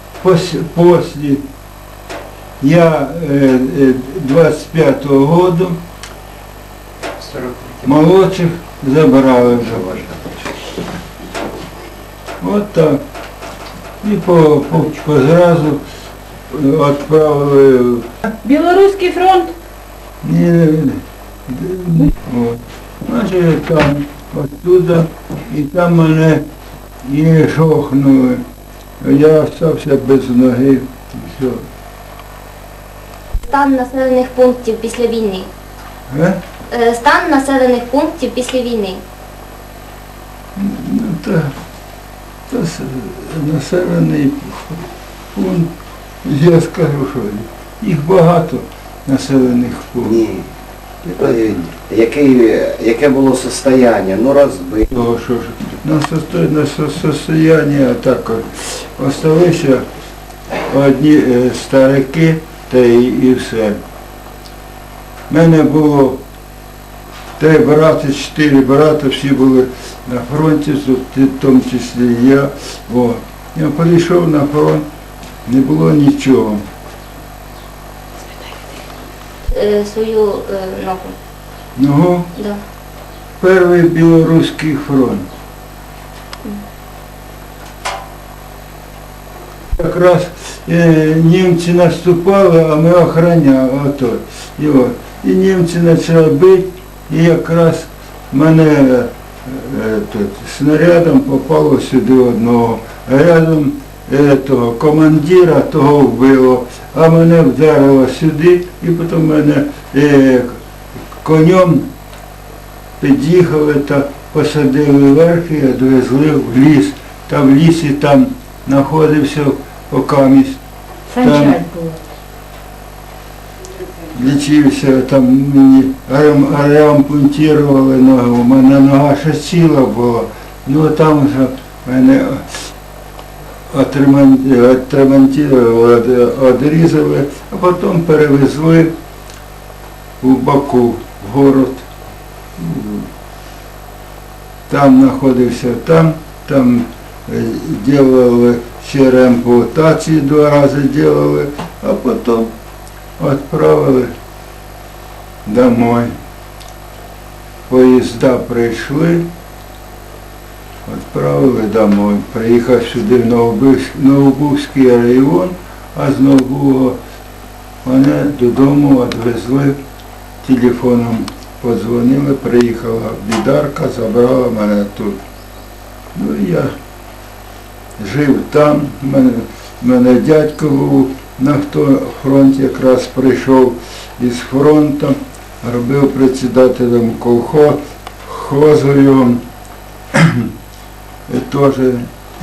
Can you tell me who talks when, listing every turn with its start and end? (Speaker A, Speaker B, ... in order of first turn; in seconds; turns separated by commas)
Speaker A: 0.2-1.4, Speaker A: 2.6-5.8, Speaker A: 7.8-10.0, Speaker A: 12.4-13.0, Speaker A: 14.0-15.8, Speaker A: 16.5-18.1, Speaker B: 18.4-19.5, Speaker A: 20.2-26.4, Speaker A: 27.0-28.4, Speaker A: 29.0-31.6, Speaker C: 33.5-35.5, Speaker A: 36.1-36.4, Speaker C: 36.7-39.0, Speaker A: 40.6-41.5, Speaker A: 42.5-44.8, Speaker A: 45.3-45.7, Speaker A: 46.2-50.2, Speaker D: 50.0-50.5, Speaker A: 51.0-51.6, Speaker D: 51.2-54.9, Speaker A: 54.9-59.9, Speaker A: 60.6-63.8, Speaker A: 65.3-66.2, Speaker A: 67.4-74.8, Speaker A: 75.5-76.6, Speaker B: 78.3-78.6, Speaker C: 79.5-81.2, Speaker A: 81.8-82.3, Speaker A: 83.4-85.3, Speaker A: 89.8-110.6, Speaker A: 111.2-111.9, Speaker A: 113.0-120.6, Speaker B: 121.1-122.0, Speaker A: 121.2-121.6, Speaker A: 124.1-132.7, Speaker A: 133.7-138.9, Speaker A: 140.2-141.9, Speaker A: 142.6-143.1, Speaker A: 144.7-152.5, Speaker A: 153.2-154.1, Speaker A: 155.4-156.1, Speaker A: 157.7-159.2, Speaker A: 160.8-167.0, Speaker A: 167.8-169.8, Speaker A: 170.4-175.2, Speaker A: 176.2-176.8, Speaker A: 178.0-189.4, Speaker A: 190.1-190.5, Speaker A: 191.3-192.1